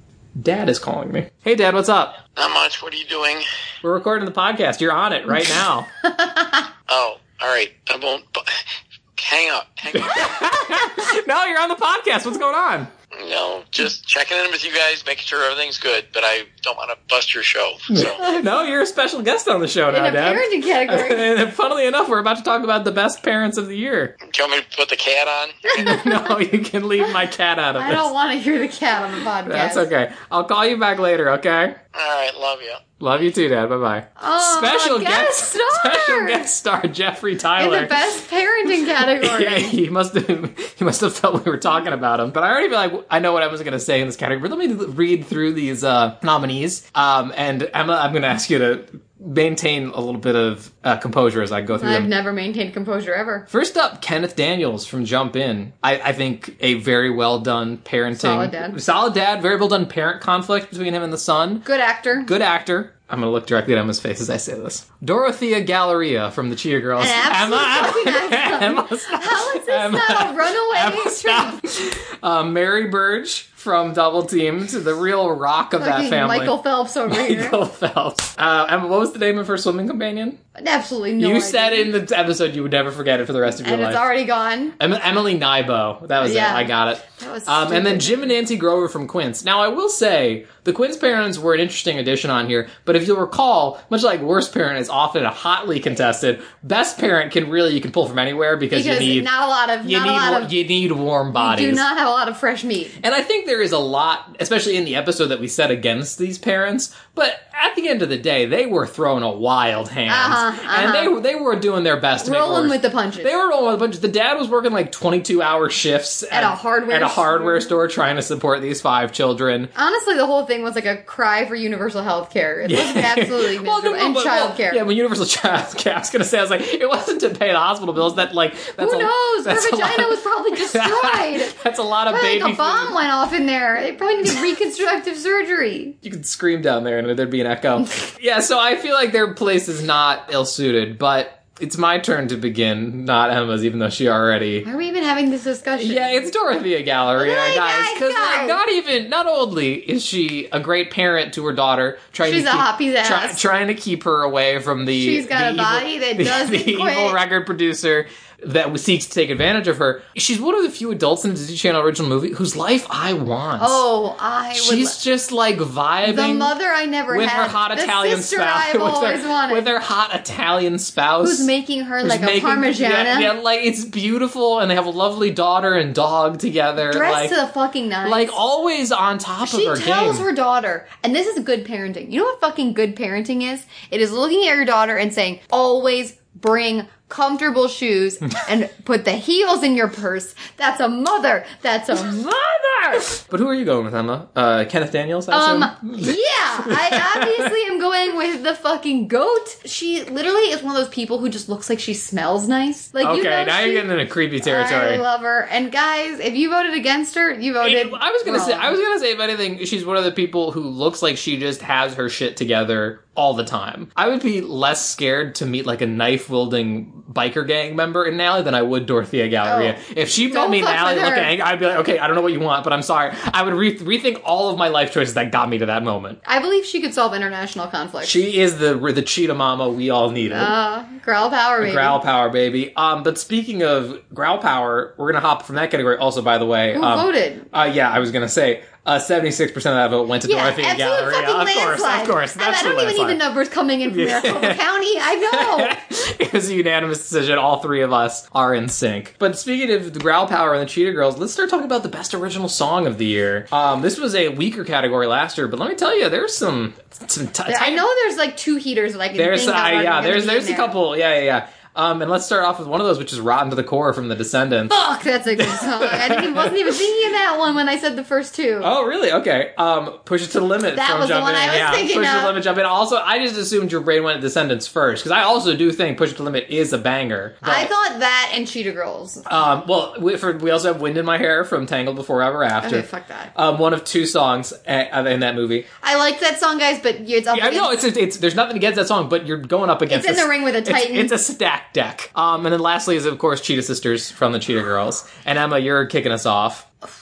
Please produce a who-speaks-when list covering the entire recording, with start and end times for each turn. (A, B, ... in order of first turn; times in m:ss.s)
0:00.4-0:02.2 A
0:02.4-0:03.4 B
0:03.8-0:05.9 A
0:06.2-0:06.6 C
0:06.9-0:08.6 B
0:09.2-0:10.4 B
0:09.9-0:12.9 A
0:13.1-0:18.2 B
0:17.9-0:24.2 A
0:18.2-0:18.4 C
0:19.9-0:21.3 C
0:24.2-0:25.8 B
0:25.7-0:26.4 C
0:25.8-0:28.1 A
0:27.8-0:29.9 C
0:29.5-0:31.8 A
0:31.9-0:32.9 B
0:33.0-0:38.1 A
0:34.2-0:36.4 C
0:37.6-0:39.8 C
0:39.0-0:52.1 A
0:51.8-0:53.5 C
0:53.5-1:01.7 A
0:58.2-0:58.8 C
1:01.6-1:02.3 C
1:02.2-1:16.6 A
1:07.0-1:11.6 C
1:15.8-1:17.6 C
1:17.1-1:20.4 A
1:20.6-1:21.9 C
1:21.2-1:24.1 A
1:23.6-1:24.8 C
1:24.8-1:39.3 A
1:26.2-1:28.3 C
1:38.7-1:40.5 C
1:39.8-1:41.8 A
1:41.4-1:43.0 C
1:43.0-1:59.7 A
1:50.1-1:51.1 C
1:52.2-1:53.3 C
1:56.3-1:57.7 C
1:59.8-2:04.8 C
2:02.6-2:13.0 A
2:08.8-2:11.6 C
2:12.1-2:16.0 C
2:16.0-2:24.7 A
2:24.6-2:26.3 C
2:25.8-2:43.8 A
2:27.2-2:28.6 C
2:32.2-2:33.4 C
2:35.0-2:37.2 C
2:43.6-2:45.0 C
2:44.5-2:46.5 A
2:46.0-2:49.7 C
2:47.1-2:51.5 A
2:51.2-2:53.3 C
2:52.0-2:57.4 A
2:56.9-2:58.4 C
2:58.0-3:00.2 A
2:59.4-3:12.2 C
3:12.0-3:17.5 A
3:15.3-3:23.9 C
3:23.0-3:25.0 A
3:24.4-3:28.8 C
3:27.6-3:46.2 A
3:39.4-3:41.3 C
3:46.2-3:48.2 C
3:48.0-3:50.5 A
3:50.3-3:52.0 C
3:51.6-4:03.2 A
3:56.7-3:57.5 C
4:00.2-4:05.8 C
4:03.9-4:04.6 A
4:05.3-4:17.8 A
4:17.5-4:20.8 C
4:19.2-4:27.0 A
4:24.7-4:28.7 C
4:28.6-4:37.7 A
4:30.7-4:32.4 C
4:37.4-4:39.3 C
4:39.3-4:45.7 A
4:42.6-4:43.3 C
4:45.8-4:47.8 C
4:47.3-4:56.7 A
4:49.9-4:51.1 C